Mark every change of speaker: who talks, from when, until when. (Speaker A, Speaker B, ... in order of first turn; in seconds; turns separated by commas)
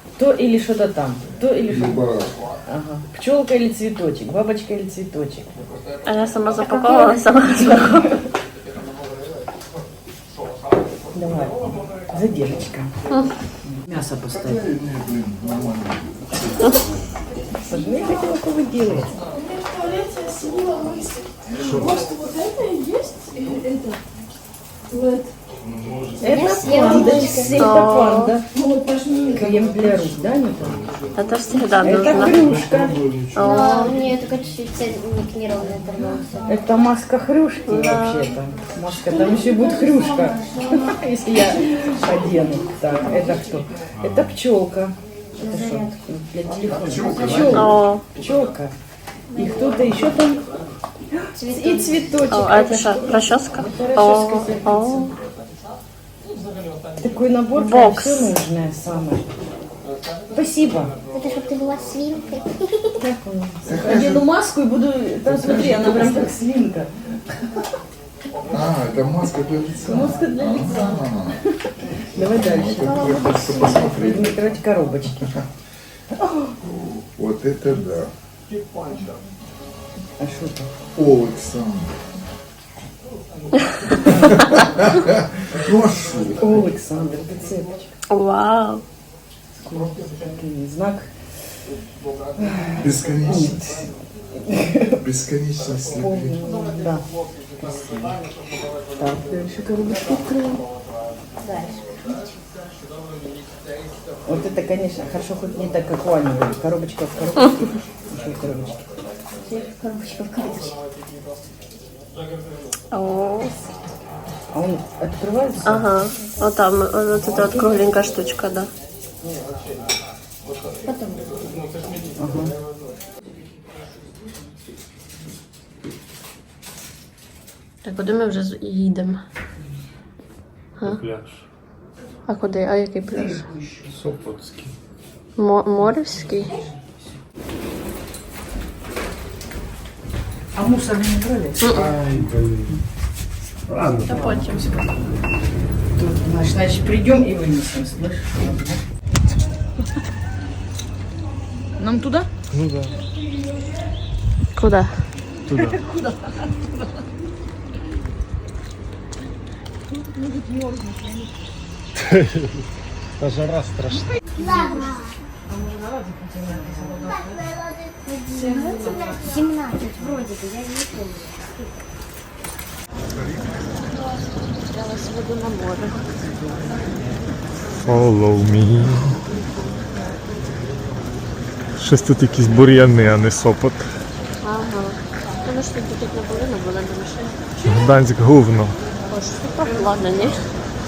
Speaker A: 0.2-2.0, Speaker B: 1.6-2.4, Speaker A: 2.6-5.5, Speaker C: 6.0-7.8, Speaker D: 6.6-7.8, Speaker A: 7.5-8.2, Speaker A: 11.1-12.9, Speaker A: 13.7-14.6, Speaker B: 14.3-16.8, Speaker A: 17.6-19.1, Speaker E: 19.3-24.0, Speaker F: 21.6-22.1, Speaker E: 24.9-25.3, Speaker F: 25.8-26.1, Speaker A: 26.2-28.5, Speaker D: 26.3-27.8, Speaker C: 27.5-28.3, Speaker E: 28.6-29.3, Speaker A: 29.3-30.9, Speaker C: 31.2-32.5, Speaker A: 31.8-33.0, Speaker F: 32.2-33.4, Speaker C: 33.3-34.0, Speaker D: 33.4-36.5, Speaker A: 36.5-48.8, Speaker C: 37.7-38.3, Speaker D: 39.4-40.6, Speaker F: 44.0-44.3, Speaker D: 45.4-46.0, Speaker B: 46.7-47.7, Speaker C: 47.5-48.0, Speaker D: 49.3-49.9, Speaker A: 49.4-50.4, Speaker A: 51.3-55.1, Speaker D: 51.4-52.2, Speaker C: 52.3-55.1, Speaker A: 57.0-59.3, Speaker C: 57.5-58.3, Speaker A: 60.3-61.0, Speaker D: 61.1-63.0, Speaker A: 63.0-66.9, Speaker B: 63.6-64.3, Speaker B: 65.3-66.3, Speaker B: 68.5-71.4, Speaker A: 69.8-73.1, Speaker B: 72.3-74.4, Speaker D: 72.8-74.0, Speaker A: 73.9-75.3, Speaker A: 76.2-76.6, Speaker B: 76.8-78.1, Speaker A: 80.2-80.7, Speaker B: 80.9-81.9, Speaker B: 84.4-86.6, Speaker A: 86.4-87.9, Speaker C: 88.1-88.8, Speaker A: 89.5-91.4, Speaker A: 92.4-95.0, Speaker B: 92.8-93.6, Speaker B: 95.0-96.4, Speaker A: 96.0-97.1, Speaker A: 97.6-98.3, Speaker A: 98.9-100.6, Speaker D: 101.4-102.0, Speaker A: 104.3-108.9, Speaker D: 109.4-110.8, Speaker C: 112.9-113.6, Speaker A: 114.5-115.9, Speaker C: 115.7-118.7, Speaker D: 117.4-117.7, Speaker D: 120.8-121.4, Speaker A: 122.2-122.5, Speaker C: 127.8-129.2, Speaker F: 130.8-131.4, Speaker C: 132.3-133.4, Speaker F: 133.9-134.7, Speaker C: 135.4-136.5, Speaker A: 140.5-142.2, Speaker C: 141.6-141.9, Speaker F: 142.0-142.7, Speaker F: 143.7-144.1, Speaker A: 144.0-144.6, Speaker C: 144.1-144.8, Speaker A: 145.9-148.8, Speaker A: 151.8-152.3, Speaker F: 152.5-153.0, Speaker C: 154.6-154.9, Speaker F: 155.5-155.8, Speaker E: 160.6-161.2, Speaker F: 162.0-162.6, Speaker F: 163.2-164.1, Speaker D: 164.4-165.2, Speaker A: 165.7-167.0, Speaker D: 167.1-171.8, Speaker C: 174.7-176.0, Speaker F: 177.8-179.2, Speaker F: 181.8-183.9, Speaker C: 184.4-187.4, Speaker F: 187.7-188.8, Speaker C: 189.1-190.5